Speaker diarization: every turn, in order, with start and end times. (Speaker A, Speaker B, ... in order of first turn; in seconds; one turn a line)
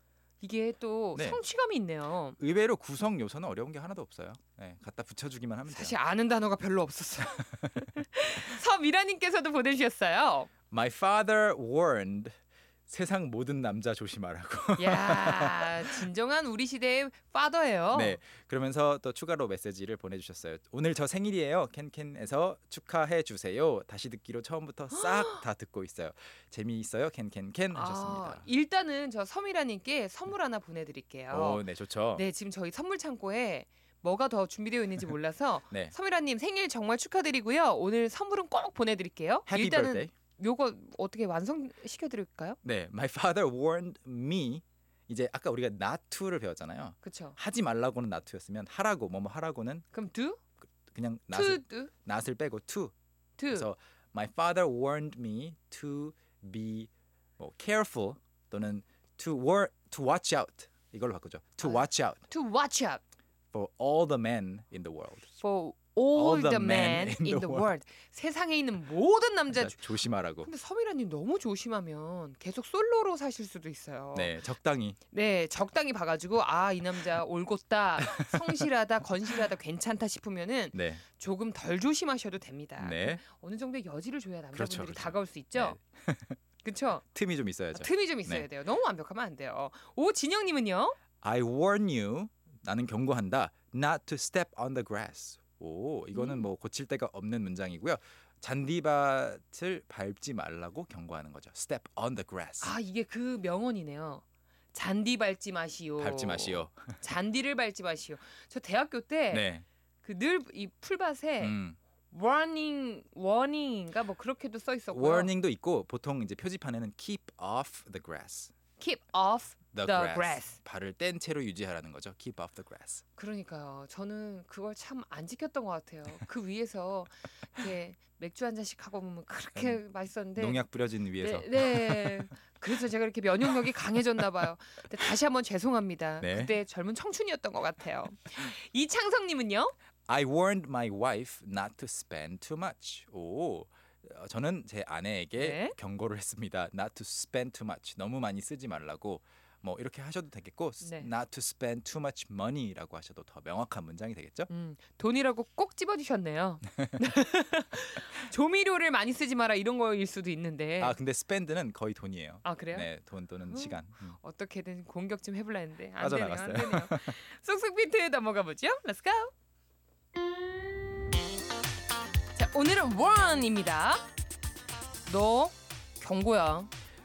Speaker A: 0.4-2.4
Speaker B: 1.1-1.4
Speaker B: 2.4-5.9
Speaker A: 5.7-10.5
Speaker B: 10.7-12.3
Speaker B: 12.9-16.1
Speaker A: 14.8-18.2
Speaker B: 17.9-28.5
Speaker A: 24.9-25.4
Speaker A: 27.7-31.6
Speaker B: 31.3-32.2
Speaker A: 32.1-42.6
Speaker B: 39.5-40.1
Speaker B: 42.6-49.9
Speaker A: 47.0-47.4
Speaker A: 49.9-50.4
Speaker B: 50.9-52.9
Speaker A: 51.3-51.9
Speaker A: 53.4-53.7
Speaker B: 53.5-62.2
Speaker A: 61.6-63.0
Speaker B: 63.5-65.3
Speaker A: 65.4-69.8
Speaker B: 66.1-67.7
Speaker B: 69.5-70.5
Speaker A: 70.4-74.4
Speaker B: 74.1-75.0
Speaker A: 75.1-85.8
Speaker B: 78.2-78.6
Speaker B: 80.7-81.0
Speaker B: 82.8-83.2
Speaker B: 84.5-86.4
Speaker A: 86.6-87.0
Speaker B: 87.1-88.5
Speaker A: 87.7-91.0
Speaker B: 91.2-102.7
Speaker A: 96.1-96.5
Speaker A: 102.6-109.5
Speaker B: 106.0-107.0
Speaker B: 109.3-109.6
Speaker A: 110.0-111.6
Speaker B: 111.4-111.8
Speaker A: 112.1-115.3
Speaker B: 114.9-118.5
Speaker A: 118.8-120.6
Speaker B: 119.7-123.0
Speaker A: 123.2-130.6
Speaker B: 130.3-132.3
Speaker A: 131.2-139.7
Speaker B: 136.2-136.5
Speaker B: 140.1-154.5
Speaker A: 145.4-145.8
Speaker A: 150.8-151.1
Speaker A: 154.5-160.9
Speaker B: 156.8-157.0
Speaker B: 160.8-164.2
Speaker A: 162.4-162.9
Speaker A: 163.5-169.3
Speaker B: 166.0-167.2
Speaker A: 172.3-174.0
Speaker A: 175.1-176.7